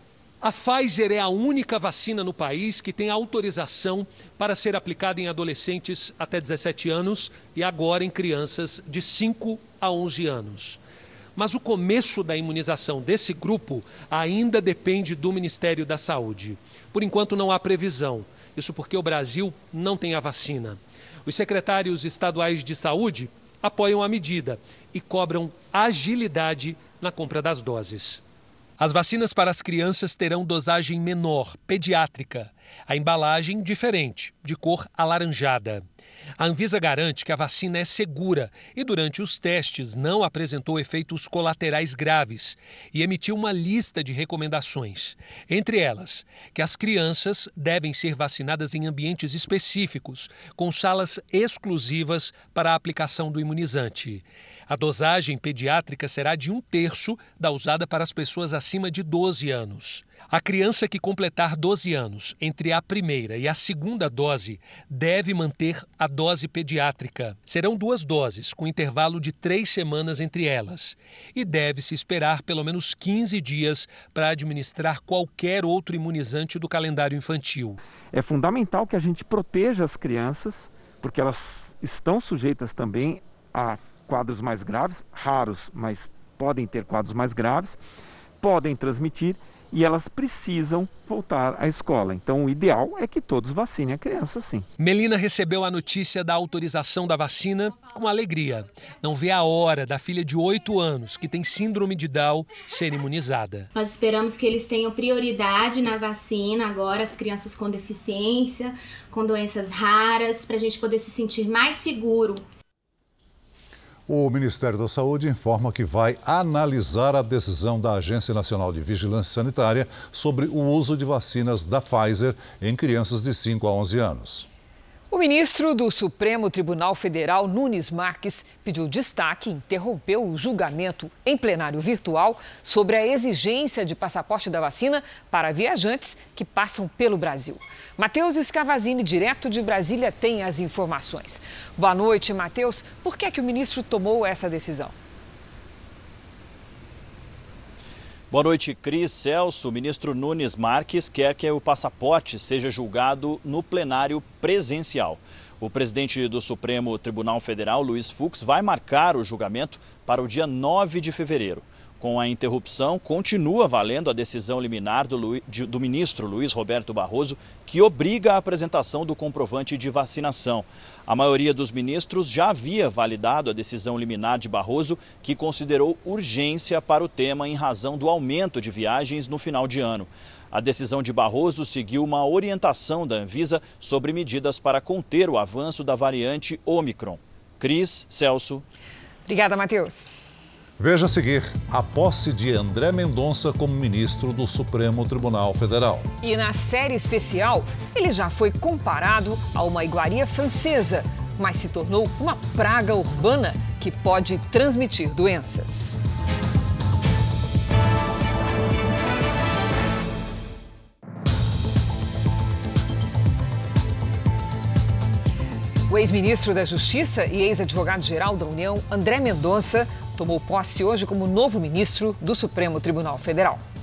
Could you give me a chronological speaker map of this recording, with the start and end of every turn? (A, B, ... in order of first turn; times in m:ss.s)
0:00.4-0:10.8 A
0:11.4-0:28.2 A
0:28.8-0:35.8 A
0:36.4-1:17.8 A
1:18.1-1:27.8 B
1:28.4-1:34.7 B
1:34.8-1:43.7 A
1:43.8-1:52.4 C
1:54.1-2:04.5 D
2:05.1-2:24.9 E
2:28.3-3:08.6 F
3:09.2-3:10.1 E
3:10.8-3:16.1 D
3:16.2-3:26.0 E
3:35.9-3:43.6 E